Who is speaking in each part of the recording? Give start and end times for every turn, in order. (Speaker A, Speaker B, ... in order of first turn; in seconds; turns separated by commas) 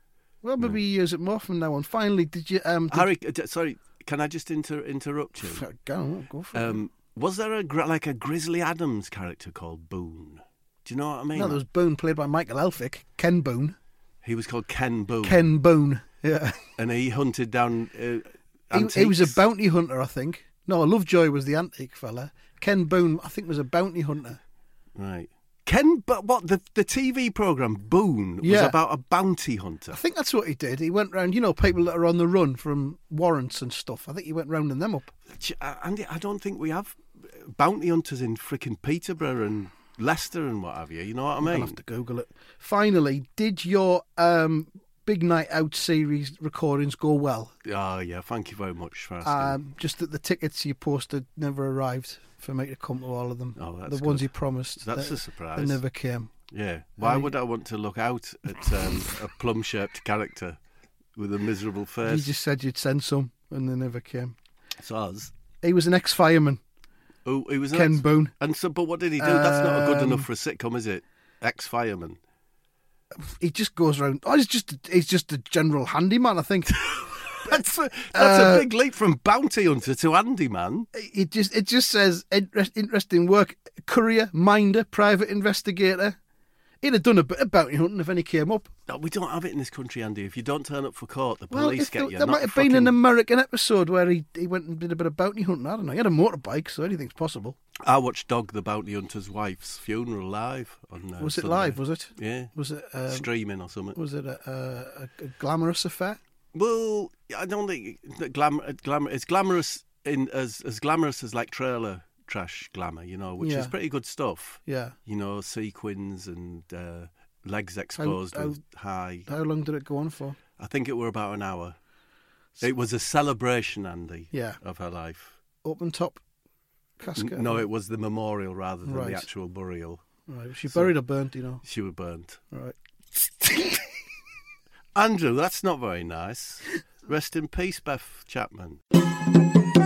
Speaker A: 0.4-3.1, Speaker B: 2.9-5.7, Speaker A: 5.4-6.8, Speaker B: 6.5-11.6, Speaker A: 11.3-13.8, Speaker B: 14.2-15.4, Speaker A: 15.2-16.6, Speaker B: 16.8-19.4, Speaker A: 18.7-24.4, Speaker B: 24.9-30.0, Speaker A: 28.4-28.8, Speaker A: 29.9-35.1, Speaker B: 35.3-41.7, Speaker A: 41.4-47.5, Speaker B: 47.6-49.6, Speaker A: 49.2-56.3, Speaker B: 53.5-55.8, Speaker B: 56.5-60.6, Speaker A: 57.0-57.3, Speaker B: 61.1-62.3, Speaker A: 62.0-64.3, Speaker B: 64.8-65.3, Speaker A: 65.6-66.6, Speaker B: 67.2-72.2, Speaker A: 67.7-68.3, Speaker A: 69.2-70.2, Speaker A: 73.2-76.9, Speaker B: 77.4-80.9, Speaker A: 78.1-78.7, Speaker A: 80.9-86.2, Speaker A: 86.8-88.7, Speaker B: 88.9-93.0, Speaker A: 91.5-97.6, Speaker B: 97.8-102.5, Speaker A: 101.2-103.3, Speaker B: 103.0-104.0, Speaker A: 103.9-106.2, Speaker B: 106.5-119.3, Speaker A: 113.4-113.7, Speaker A: 114.7-114.9, Speaker A: 118.0-118.6, Speaker A: 119.2-120.4, Speaker B: 120.6-121.8, Speaker B: 122.6-125.3, Speaker A: 124.3-124.6, Speaker A: 125.6-126.2, Speaker A: 127.0-127.7, Speaker B: 127.2-130.0, Speaker A: 128.8-129.3, Speaker A: 130.3-131.6, Speaker B: 131.6-132.4, Speaker B: 133.2-133.4, Speaker B: 134.9-138.8